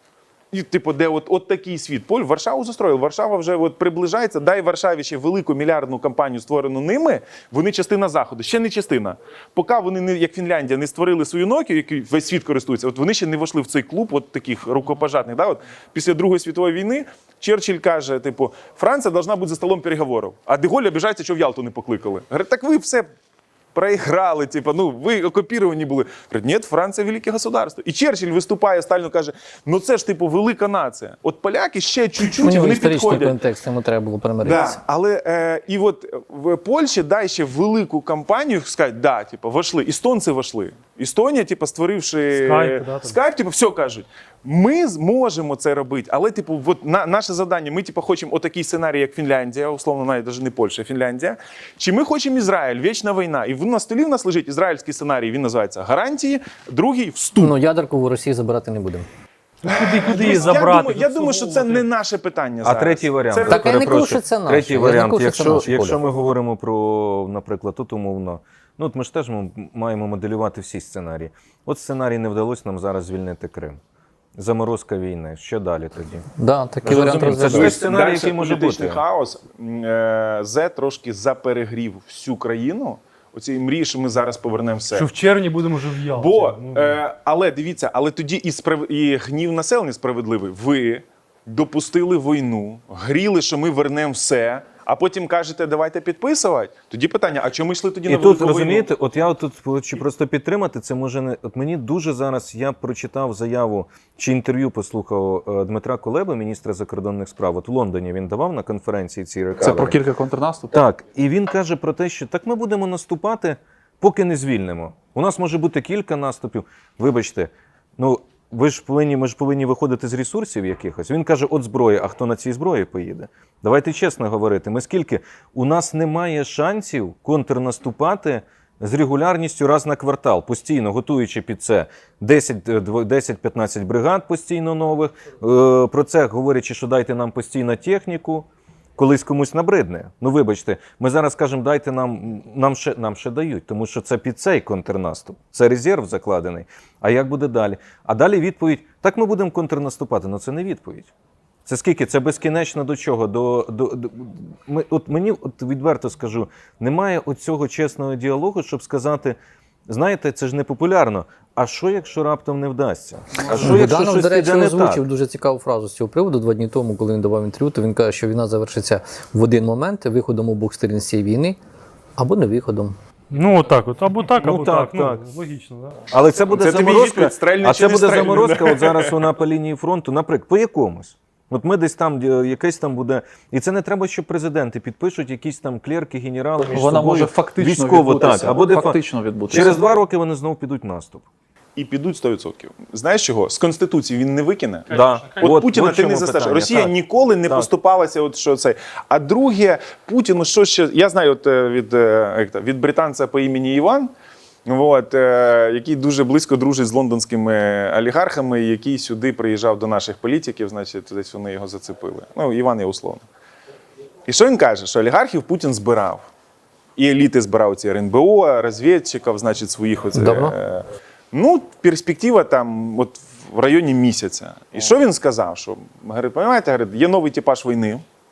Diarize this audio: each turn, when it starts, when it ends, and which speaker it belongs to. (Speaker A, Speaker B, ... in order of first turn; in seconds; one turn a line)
Speaker A: 0.5-23.1
Speaker A: 23.7-33.4
Speaker B: 32.4-34.8
Speaker A: 34.4-57.5
Speaker C: 42.3-43.2
Speaker B: 57.4-59.0
Speaker C: 59.6-61.9
Speaker A: 59.7-63.8
Speaker D: 62.6-73.8
Speaker B: 63.5-66.0
Speaker D: 74.4-76.3
Speaker B: 76.4-77.8
Speaker D: 76.8-79.0
Speaker A: 77.5-85.1
Speaker C: 84.9-87.0
Speaker A: 86.1-98.9
Speaker D: 98.0-110.0
Speaker E: 109.6-110.8
Speaker D: 110.7-151.1
Speaker D: 151.7-159.4
Speaker D: 159.9-165.0
Speaker B: 163.6-171.6
Speaker B: 172.2-172.9
Speaker C: 173.3-176.0
Speaker D: 174.4-175.2
Speaker D: 176.1-189.0
Speaker A: 176.5-179.1
Speaker E: 186.6-189.8
Speaker D: 189.5-191.2
Speaker A: 191.8-194.9
Speaker C: 194.9-195.5
Speaker D: 194.9-197.7
Speaker A: 195.4-204.1
Speaker A: 204.7-213.2
Speaker A: 214.2-216.3
Speaker A: 217.0-228.0
Speaker B: 220.1-220.5